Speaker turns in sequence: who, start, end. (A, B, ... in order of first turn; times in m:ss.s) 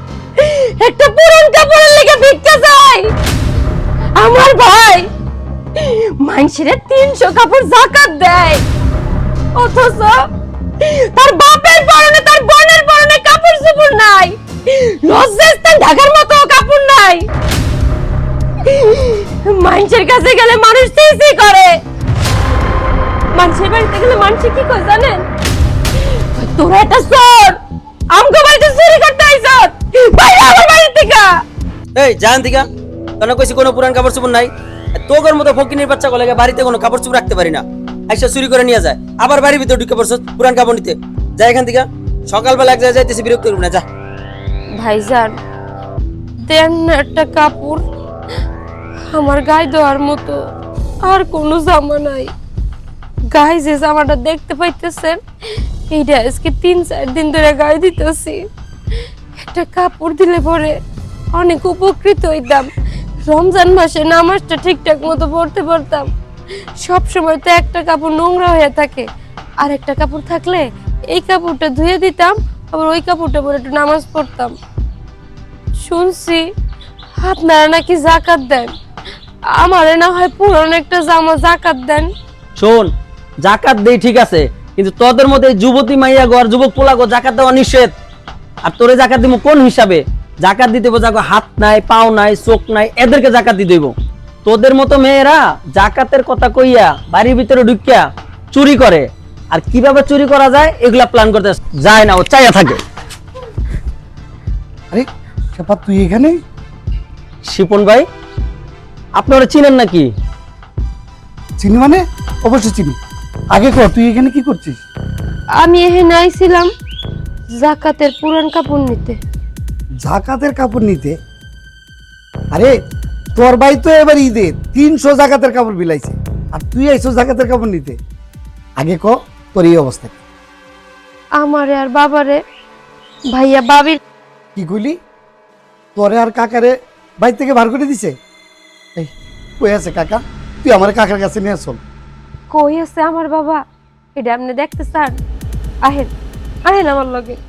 0:00.4-0:03.1 A
0:04.2-0:05.1 A
0:05.8-0:08.6 A
0:09.6-0:10.3 A
0:10.8-0:17.2 A
0:18.6-0:21.8 A
0:23.3-0:25.2 A
0:26.0-0:27.6 A
0:28.1-0:31.4 A
0:31.9-0:32.6 B
0:33.2-0:34.5 B
0:35.0-0:43.8 B
0:44.7-0:45.3 A
0:46.5-0:47.8 A
0:49.1-0:50.4 A
0:51.0-0:52.3 A
0:53.3-0:55.2 A
0:55.9-0:58.4 A
0:59.4-1:00.8 A
1:01.3-1:02.7 A
1:03.2-1:06.1 A
1:06.8-1:09.0 A
1:09.6-1:14.5 A
1:15.8-1:16.5 A
1:17.2-1:18.7 A
1:19.5-1:22.1 A
1:22.6-1:22.9 B
1:23.4-1:27.9 B
1:28.6-1:33.9 B
1:34.4-1:42.8 B
1:44.9-1:46.4 C
1:47.5-1:48.0 B
1:49.2-1:50.1 B
1:51.6-1:53.0 C
1:53.5-1:54.8 C
1:55.6-1:56.7 A
1:57.5-1:59.2 A
2:00.0-2:01.1 C
2:03.3-2:08.0 C
2:08.8-2:10.2 C
2:11.4-2:12.4 A
2:13.3-2:14.0 A
2:14.6-2:15.0 C
2:16.0-2:18.1 C
2:19.0-2:21.8 C
2:22.5-2:23.6 A
2:24.2-2:25.2 A
2:25.8-2:26.1 A
2:26.6-2:27.4 A